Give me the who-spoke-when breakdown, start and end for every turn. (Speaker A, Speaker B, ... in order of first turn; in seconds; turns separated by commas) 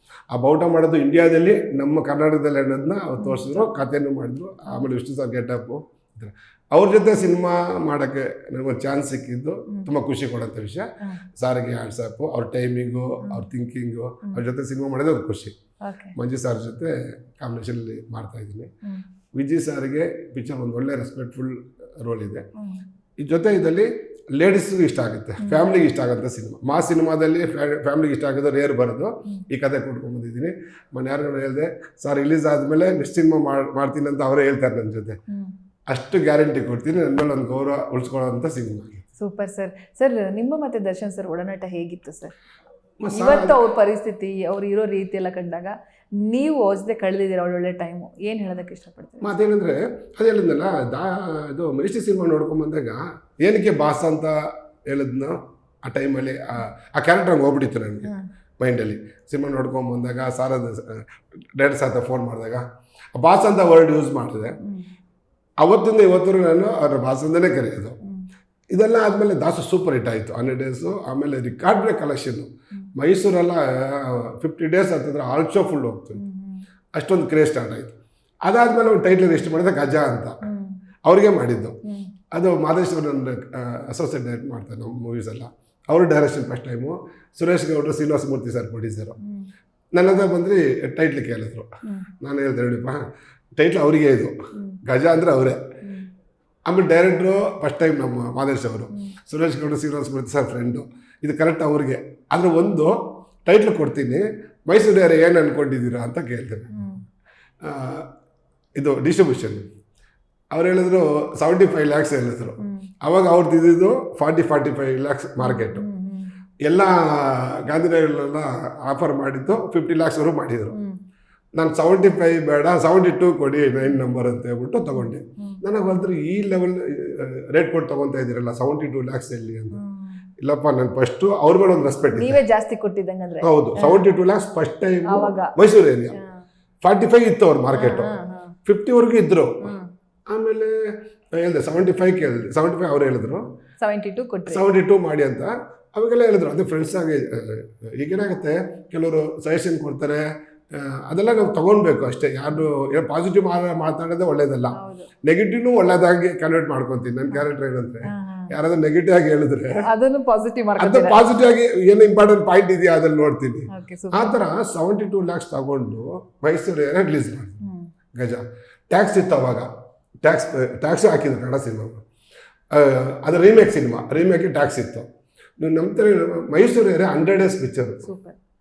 Speaker A: 0.3-15.5, Speaker B: 3.2-3.7, Speaker B: 15.8-16.1, Speaker A: 16.2-18.7, Speaker A: 19.3-22.5, Speaker A: 23.2-35.2, Speaker A: 35.9-39.0, Speaker B: 39.2-42.3, Speaker A: 43.0-43.6, Speaker B: 43.1-49.3, Speaker A: 49.2-54.4, Speaker A: 54.9-64.5, Speaker A: 65.6-68.0, Speaker A: 68.7-76.2, Speaker B: 76.2-76.6, Speaker A: 77.0-80.4, Speaker B: 80.4-80.8, Speaker A: 81.0-81.8, Speaker B: 81.8-82.1, Speaker A: 82.3-89.2, Speaker B: 89.2-89.5, Speaker A: 90.0-91.7, Speaker A: 92.2-93.0, Speaker A: 93.6-94.3, Speaker A: 94.8-95.6, Speaker A: 96.7-103.0, Speaker A: 103.5-106.7, Speaker B: 106.7-107.0, Speaker A: 107.6-108.1, Speaker A: 108.8-109.6, Speaker A: 110.5-115.8, Speaker B: 112.6-112.9, Speaker B: 115.4-116.3, Speaker A: 116.7-120.8, Speaker B: 120.7-121.0, Speaker A: 121.6-129.8, Speaker B: 129.7-130.2, Speaker A: 130.4-132.4, Speaker B: 132.1-134.0, Speaker A: 133.4-136.2, Speaker B: 135.1-135.5, Speaker A: 136.8-138.1, Speaker B: 137.7-138.5, Speaker A: 138.7-139.7, Speaker B: 139.6-139.9, Speaker A: 140.3-143.4, Speaker B: 143.8-144.6, Speaker A: 144.5-159.8, Speaker B: 154.7-155.1, Speaker B: 158.1-158.5, Speaker B: 159.8-161.3, Speaker A: 160.8-167.6, Speaker B: 163.7-164.3, Speaker B: 167.6-167.9, Speaker A: 168.2-169.7, Speaker A: 170.2-172.0, Speaker A: 172.7-175.1, Speaker A: 175.6-178.1, Speaker B: 178.0-178.4